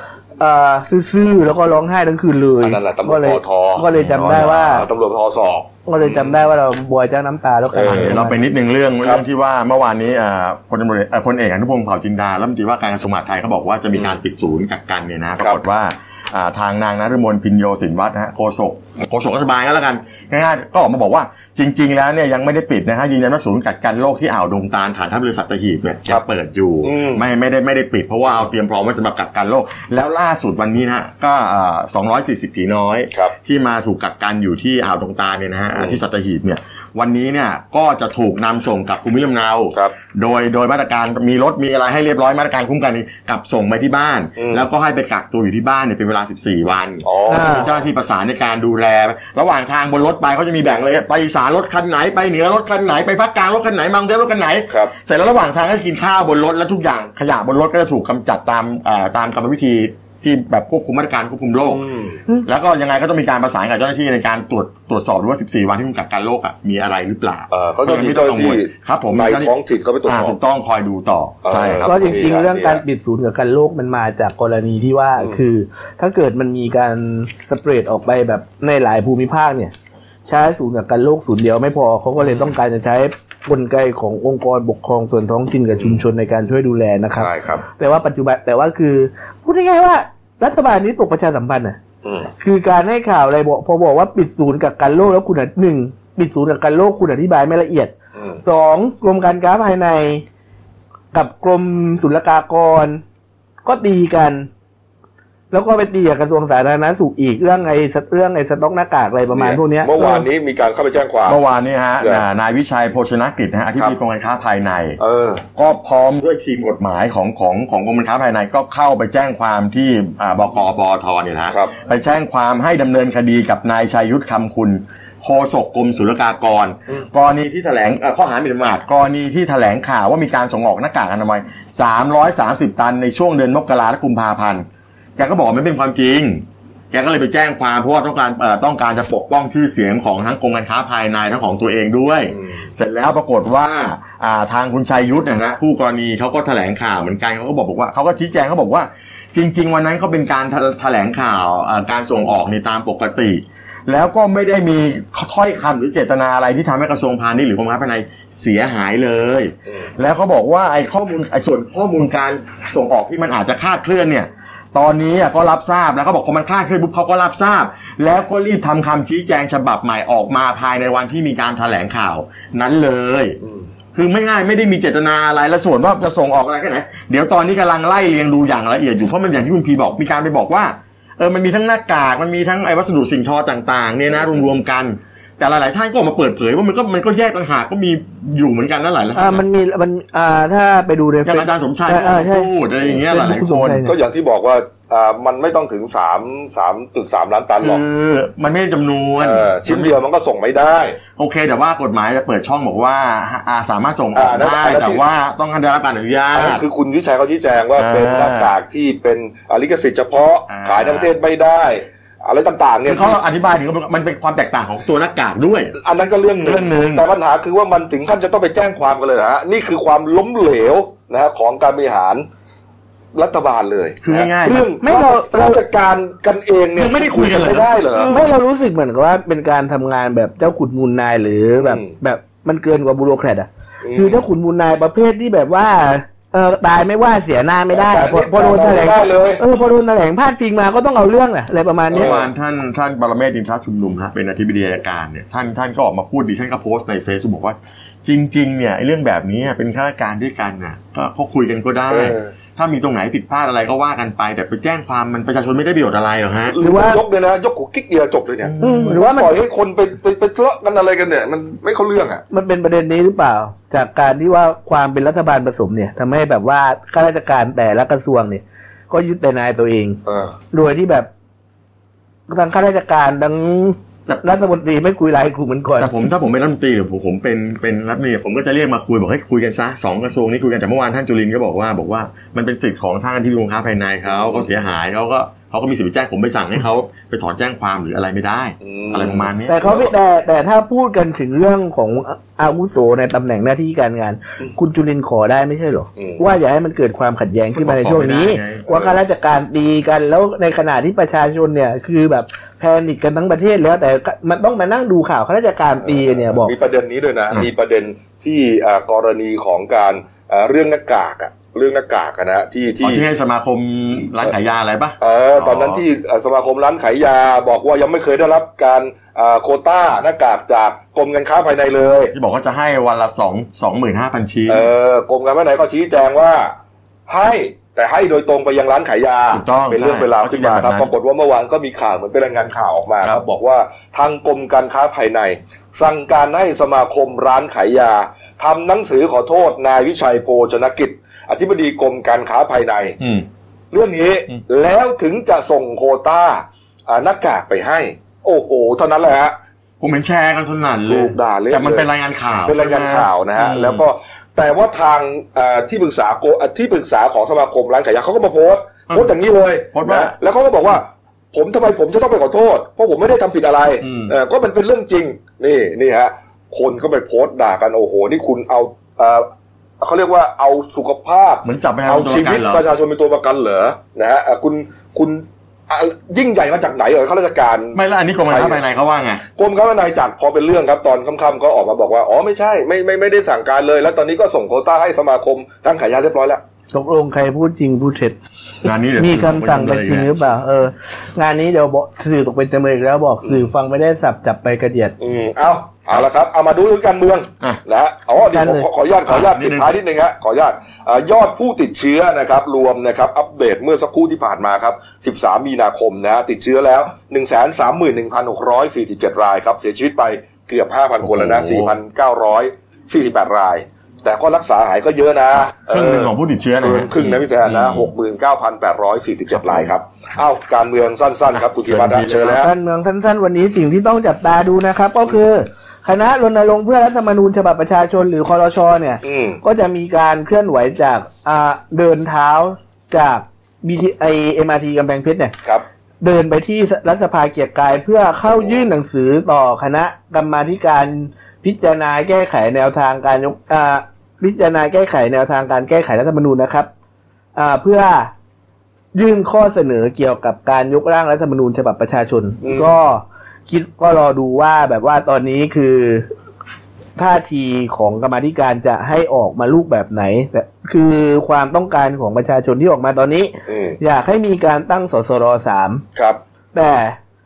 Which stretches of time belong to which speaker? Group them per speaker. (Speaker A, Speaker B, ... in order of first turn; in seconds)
Speaker A: 0.4-4.9, 5.8-8.4, 47.3-47.7, 71.8-79.7, 80.3-91.8, 92.4-97.9, 98.4-100.2, 101.1-103.0, 103.6-104.5, 105.5-110.2, 189.1-193.9, 224.8-225.6, 228.0-242.1, 256.6-257.0, 258.6-259.3, 262.3-270.0, 270.5-271.1, 272.3-275.9, 289.5-306.5, 386.7-388.2, 389.0-394.9, 398.3-398.7, 422.2-435.3, 436.0-446.7, 447.4-448.1, 448.9-456.1, 456.9-465.8, 466.5-467.0
Speaker B: 2.6-3.9, 4.5-6.4, 7.7-8.1, 26.8-27.2, 44.4-44.6, 47.0-47.7, 61.7-62.2, 67.5-70.4, 71.4-72.8, 85.8-86.0, 87.2-87.6, 92.0-92.3, 98.2-98.4, 109.3-111.4, 115.0-115.4, 142.3-142.7, 173.4-173.7, 193.8-197.8, 199.2-201.0, 204.1-205.0, 206.3-213.2, 215.8-222.2, 223.1-228.1, 231.6-231.9, 233.8-234.2, 237.7-239.4, 241.9-242.2, 251.9-252.3, 256.5-262.2, 270.1-270.3, 284.1-284.4, 288.6-289.3, 296.0-296.2, 298.7-298.9, 305.8-313.0, 315.0-322.1, 324.5-326.5, 327.1-343.0, 343.7-349.4, 350.9-351.9, 352.4-369.3, 369.8-378.6, 379.4-386.4, 395.0-422.5, 429.0-429.4, 438.3-438.6, 452.4-452.7, 463.5-463.8
Speaker C: 3.9-4.8, 7.8-61.8, 62.4-69.5, 70.0-72.2, 111.2-115.0, 115.5-134.7, 135.2-173.4, 173.9-189.4, 191.2-193.8, 197.6-199.9, 201.2-206.6, 207.8-208.5, 210.5-211.1, 212.8-215.7, 216.4-217.0, 224.0-224.6, 226.8-228.2, 241.9-256.6, 258.4-259.0, 275.8-289.9, 297.6-298.6, 312.8-315.8, 322.1-324.7, 329.3-330.9, 343.0-343.2, 349.8-353.8, 359.7-360.1, 363.8-364.1, 371.4-372.6, 377.7-379.2, 388.6-390.1, 399.1-399.7, 411.0-411.7, 415.4-417.9, 419.3-419.7, 421.3-422.4